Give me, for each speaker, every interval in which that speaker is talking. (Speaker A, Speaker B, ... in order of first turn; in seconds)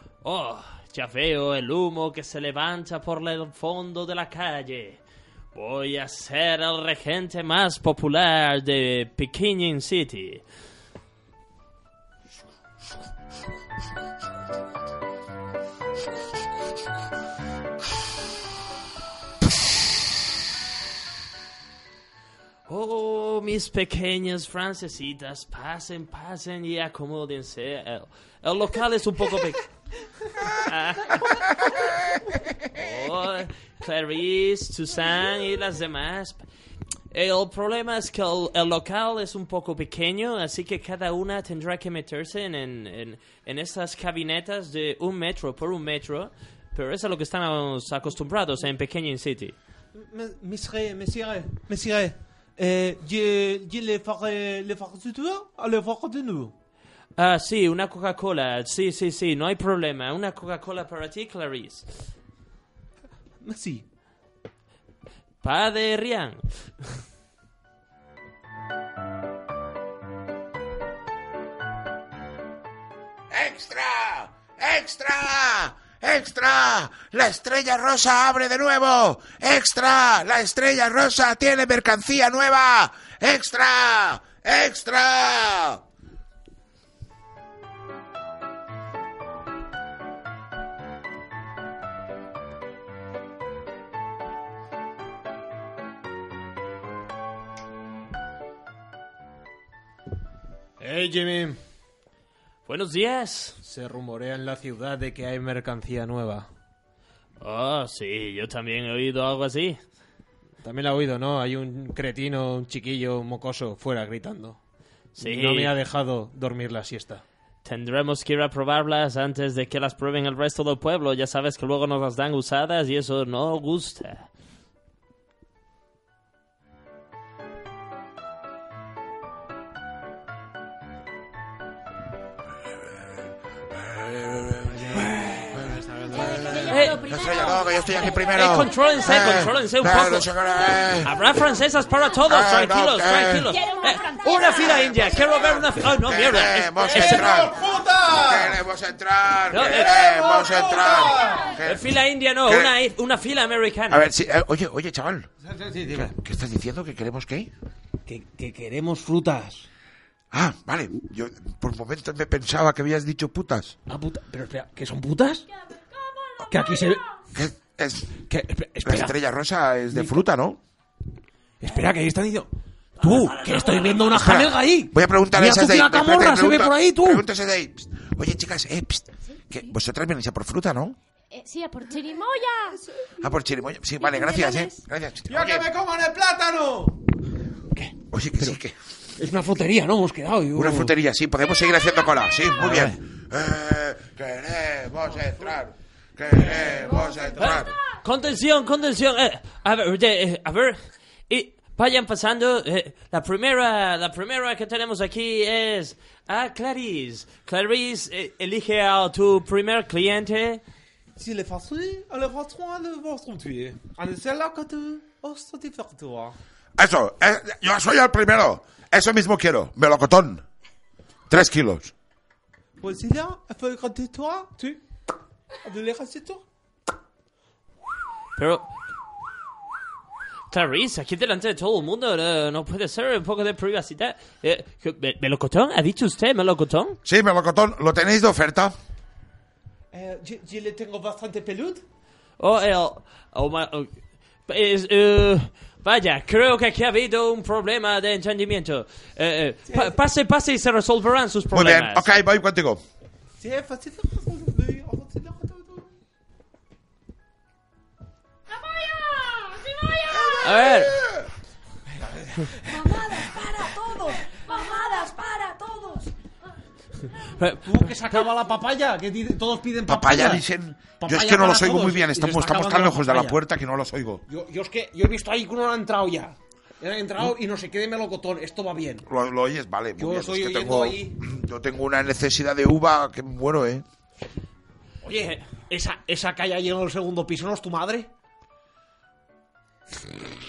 Speaker A: 0.2-5.0, 5.5-10.4, 22.7-29.7, 30.5-31.5, 32.7-36.4, 37.1-49.5, 57.2-61.9, 65.4-66.7, 102.7-103.6, 107.4-109.8, 115.2-115.7, 117.7-124.3, 136.7-137.0, 138.3-140.3, 141.0-147.4, 149.5-150.0, 151.6-154.1, 173.0-174.4, 198.0-210.6, 228.4-228.7, 230.5-237.0, 242.4-252.1, 260.4-260.9, 267.4-267.7
Speaker B: 49.9-56.5, 63.4-63.8, 100.8-101.6, 103.6-106.5, 110.6-114.6, 115.2-117.2, 134.7-136.7, 146.8-148.6, 149.6-151.6, 155.4-156.1, 158.1-159.7, 163.9-165.5, 166.5-167.0, 168.3-169.2, 169.9-170.2, 171.6-177.2, 185.3-187.0, 187.8-188.6, 189.2-190.9, 192.6-193.0, 197.3-197.6, 211.2-216.3, 222.8-224.8, 225.6-226.4, 239.9-241.8, 249.7-250.0, 253.4-255.9, 261.9-263.1, 267.6-270.5, 271.0-273.4, 274.3-279.1, 280.0-281.2, 285.0-288.1
Speaker C: 73.3-85.8, 133.7-135.7, 136.2-141.1, 142.3-143.5, 144.4-151.9, 152.4-152.7, 153.9-155.3, 155.9-157.5, 160.3-163.8, 167.3-168.2, 168.8-170.6, 174.1-181.0, 183.2-185.7, 188.1-188.8, 190.6-197.8, 216.8-220.4, 221.3-221.9, 237.1-238.8, 251.5-252.8, 260.2-261.1, 269.9-274.2, 279.1-283.9
Speaker D: 136.1-139.5, 143.4-145.7, 151.1-151.5, 165.7-167.0, 181.3-182.8, 191.6-192.1, 258.5-260.7
Speaker E: 181.9-184.8, 196.8-197.3, 262.7-266.1